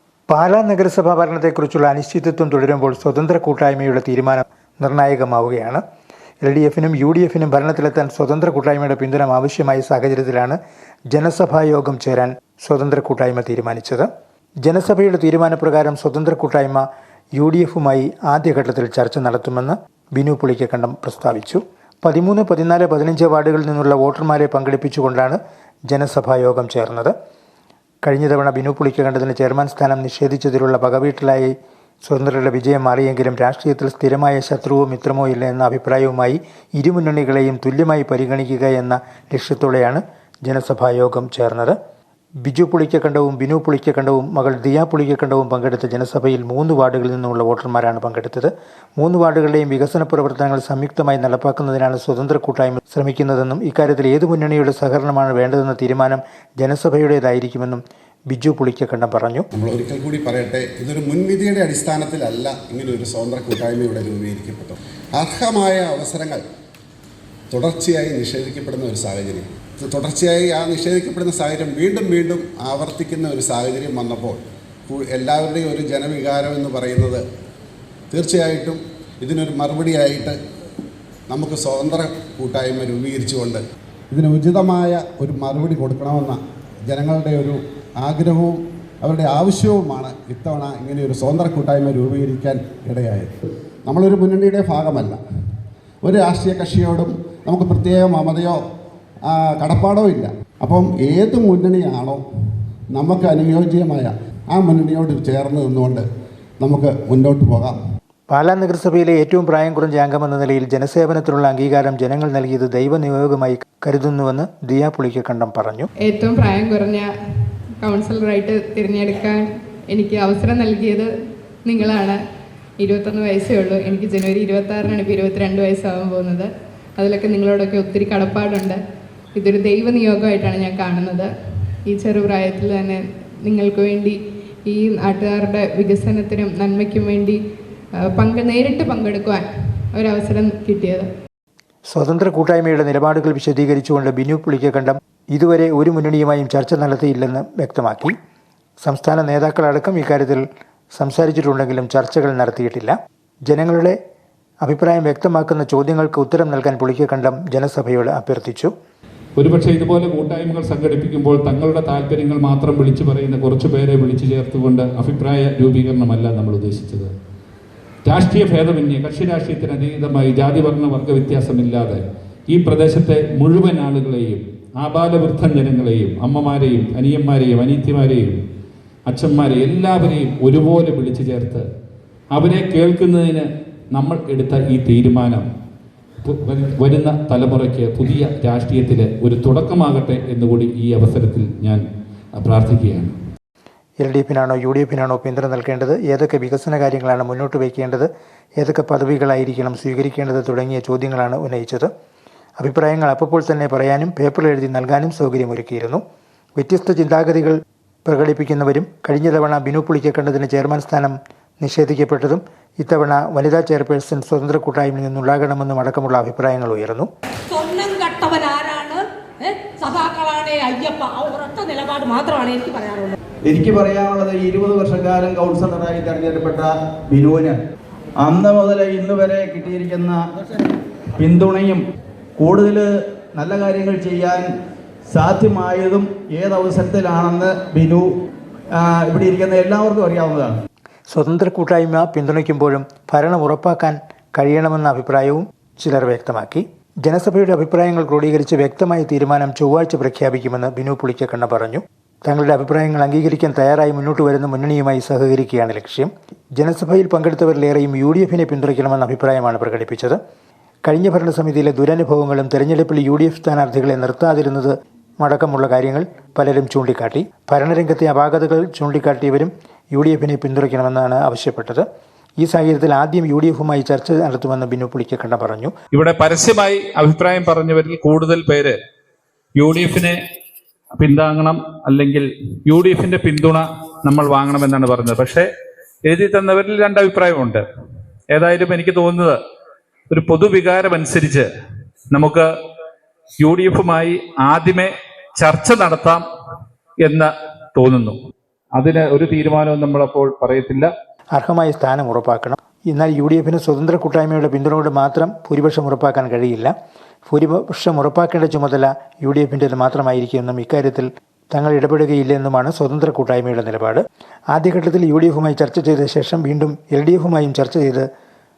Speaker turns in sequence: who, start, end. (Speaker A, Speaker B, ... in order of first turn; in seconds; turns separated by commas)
Speaker A: 0.3-5.8, Speaker A: 6.4-10.6, Speaker A: 11.1-14.1, Speaker A: 14.6-27.1, Speaker A: 28.1-31.5, Speaker A: 32.0-41.8, Speaker A: 42.4-59.5, Speaker B: 59.5-66.4, Speaker B: 67.5-77.2, Speaker B: 78.1-80.4, Speaker B: 81.3-93.3, Speaker B: 93.9-95.2, Speaker B: 96.0-98.6, Speaker B: 99.3-102.2, Speaker B: 103.0-106.1, Speaker B: 106.6-107.8, Speaker A: 108.3-115.9, Speaker C: 116.0-117.1, Speaker C: 117.8-121.1, Speaker C: 121.7-122.2, Speaker C: 122.8-128.8, Speaker C: 129.3-131.3, Speaker C: 131.9-137.4, Speaker C: 138.0-141.1, Speaker A: 141.9-148.1, Speaker A: 148.8-150.4, Speaker A: 150.9-154.0, Speaker A: 154.6-158.7, Speaker D: 159.4-167.1, Speaker D: 168.1-178.4, Speaker D: 179.1-181.6, Speaker D: 182.3-185.4, Speaker D: 186.2-191.8, Speaker D: 192.4-193.1, Speaker A: 194.0-201.9, Speaker A: 202.6-206.0, Speaker A: 206.6-217.1, Speaker E: 217.5-223.2, Speaker F: 223.5-227.6, Speaker F: 228.2-230.3, Speaker F: 231.2-231.8, Speaker F: 232.4-234.5, Speaker F: 235.1-238.1, Speaker F: 238.7-240.6, Speaker A: 241.1-260.2, Speaker A: 260.9-271.9, Speaker A: 272.4-275.7, Speaker D: 275.9-278.8, Speaker D: 279.6-280.2, Speaker D: 281.0-285.5, Speaker D: 286.1-287.6, Speaker D: 288.3-289.4, Speaker D: 290.1-291.5, Speaker D: 292.1-292.5, Speaker D: 293.4-296.2, Speaker D: 297.0-298.1, Speaker D: 298.7-300.9, Speaker A: 301.4-306.7, Speaker A: 307.3-318.1